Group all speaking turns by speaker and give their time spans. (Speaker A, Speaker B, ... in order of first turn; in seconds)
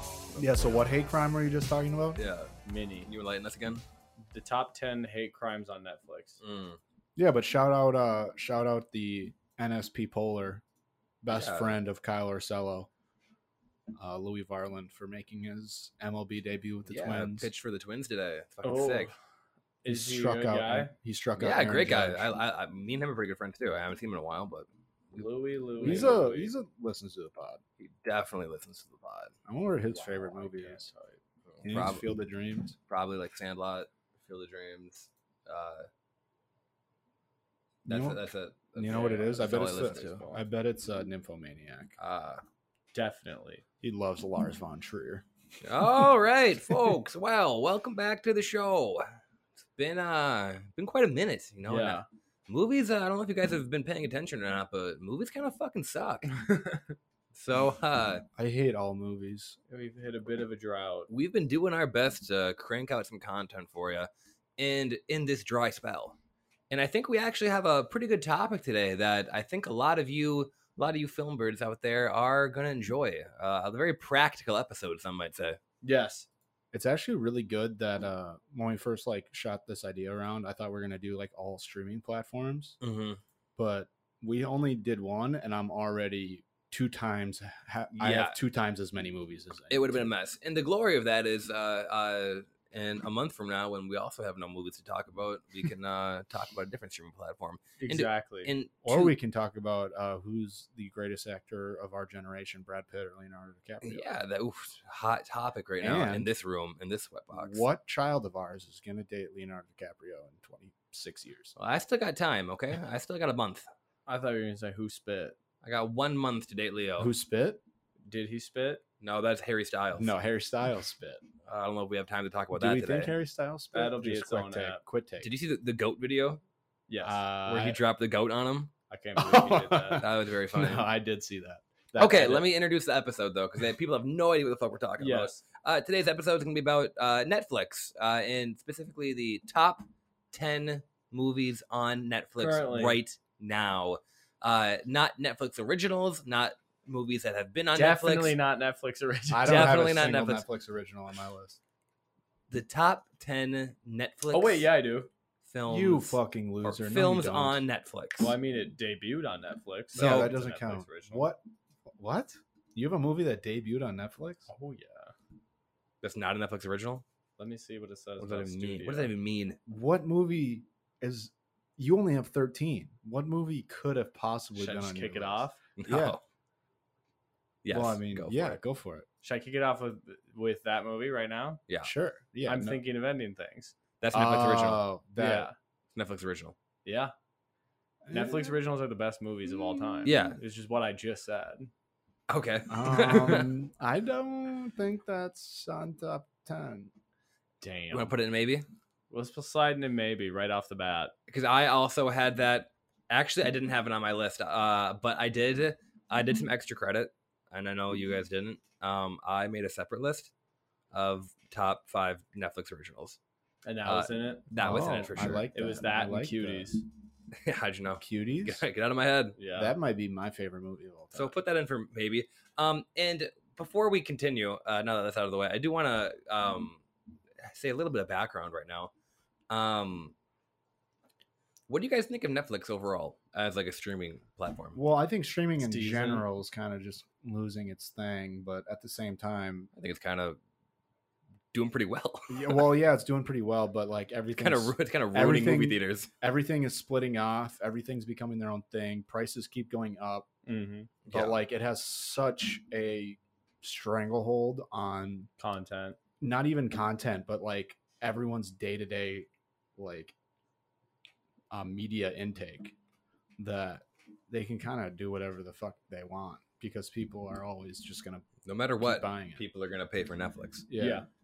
Speaker A: 0.3-2.2, 7.2-10.6, 11.2-12.9, 14.0-17.5, 19.9-22.3, 25.8-27.6, 29.4-30.9, 31.6-32.8, 37.9-38.2, 38.7-42.0, 43.8-45.2, 58.4-59.6, 76.7-82.8, 83.6-90.1, 98.8-104.1, 105.8-106.3, 107.3-111.5, 117.0-117.6, 120.0-121.2, 122.5-125.3, 127.0-127.8, 129.2-132.4, 149.3-151.6, 155.7-157.6, 159.9-161.4, 161.9-164.5, 169.7-176.2, 177.7-179.1, 181.8-182.8, 184.1-185.5, 188.0-188.6, 189.7-190.1, 192.7-196.9, 214.6-216.7, 218.0-218.6, 219.5-221.3, 234.7-239.7, 242.3-250.3, 251.1-255.3, 256.2-260.1, 261.5-262.7, 263.4-269.4, 270.7-271.1
Speaker B: 2.1-2.5, 3.0-3.8, 6.4-6.8, 11.3-11.8, 16.9-19.1, 21.4-26.2, 27.8-29.3, 31.6-32.1, 32.9-35.9, 37.9-40.4, 42.0-42.4, 45.6-49.1, 49.8-56.3, 57.3-58.2, 61.1-66.2, 66.7-75.6, 82.8-83.2, 88.0-88.4, 89.7-99.2, 103.8-107.6, 111.6-113.7, 115.6-117.1, 119.0-120.1, 121.5-123.2, 125.2-126.4, 127.4-128.7, 130.0-130.9, 131.9-148.4, 149.4-150.4, 152.5-154.7, 155.5-158.3, 159.9-160.3, 166.0-167.0, 168.2-169.6, 175.8-176.2, 177.6-178.6, 184.0-184.8, 185.9-186.5, 190.0-190.4, 192.3-193.5, 197.9-198.7, 201.3-210.3, 210.9-213.2, 213.8-215.5, 217.3-219.4, 221.1-226.8, 227.4-228.9, 229.5-230.1, 231.7-234.8, 239.8-240.4, 241.5-242.6, 244.3-246.1, 251.0-251.4, 268.4-270.7
Speaker C: 2.6-3.1, 4.3-6.4, 18.6-19.1, 19.8-20.9, 25.1-26.5, 29.9-31.6, 42.9-43.6, 51.6-52.0, 56.4-56.8, 59.7-61.1, 75.8-76.3, 97.8-98.5, 114.0-115.3, 118.1-118.8, 123.7-124.8, 126.9-127.2, 128.9-130.0, 135.0-135.4, 142.4-143.0, 147.7-149.8, 154.3-155.1, 158.2-161.3, 164.5-165.1, 167.4-169.1, 174.6-175.6, 179.2-181.6, 182.4-183.7, 185.2-185.5, 186.8-187.1, 188.1-191.7, 197.6-198.1, 199.1-201.1, 213.6-214.5, 215.5-216.8, 219.4-219.8, 235.6-236.2, 250.4-250.9, 255.4-256.0, 270.8-271.1